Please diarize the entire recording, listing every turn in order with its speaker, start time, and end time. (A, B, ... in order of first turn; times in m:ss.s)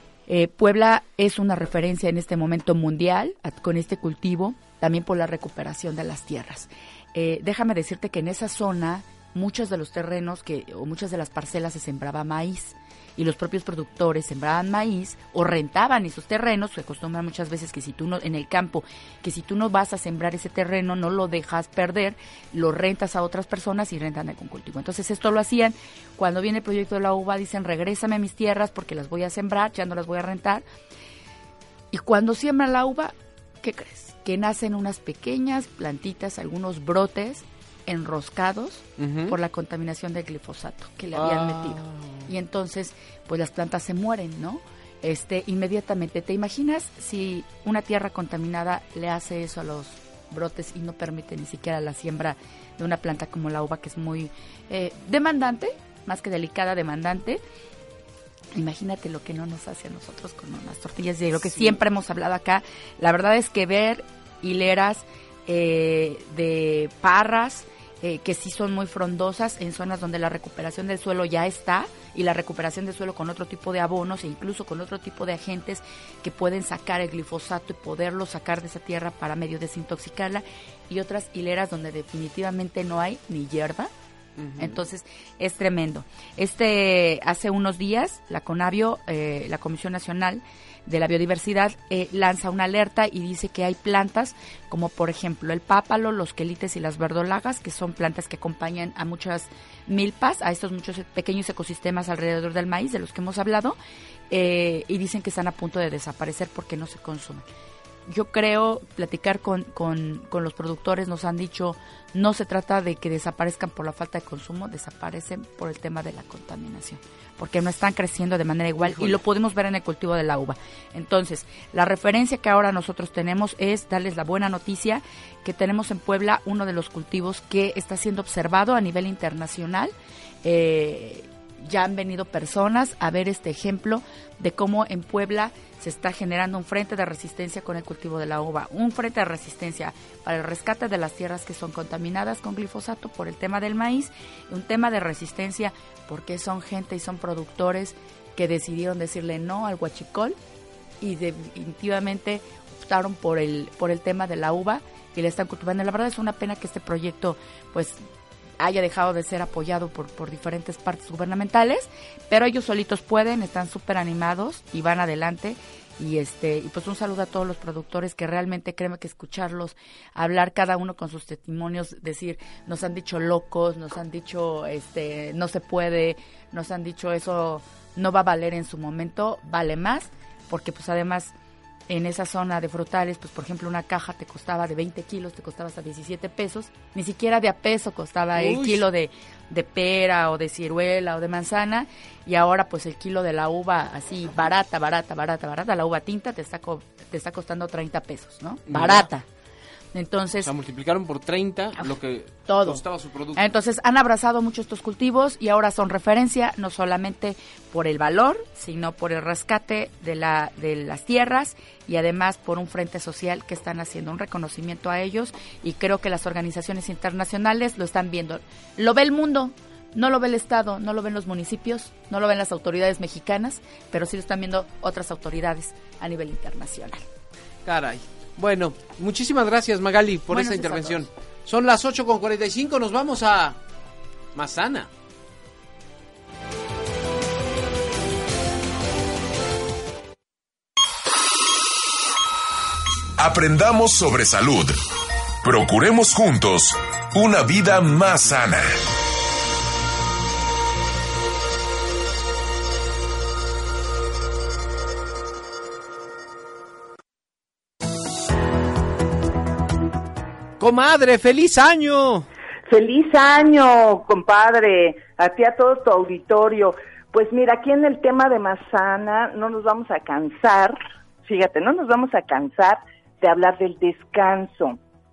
0:00.3-0:30.6 A
0:31.9-0:57.4 A
0:39.0-0:39.4 B
0:41.1-0:42.2 B
0:58.5-1:23.9 A
1:24.4-1:24.8 B
1:24.6-1:43.8 A
1:44.3-1:47.4 A
1:48.1-2:09.9 A
1:58.8-1:59.2 B
2:10.4-2:30.4 A
2:31.0-2:38.0 A
2:38.6-3:01.3 A
3:01.9-3:19.3 A
3:08.4-3:08.8 B
3:18.7-3:19.0 B
3:19.9-3:20.5 A
3:20.4-3:23.4 B
3:22.5-3:22.8 A
3:23.4-3:47.0 A
3:47.6-3:53.6 B
3:50.3-3:51.0 A
3:54.3-3:54.9 B
4:03.2-4:04.8 C
4:05.4-4:08.7 C
4:20.6-4:22.3 B
4:22.7-4:34.8 D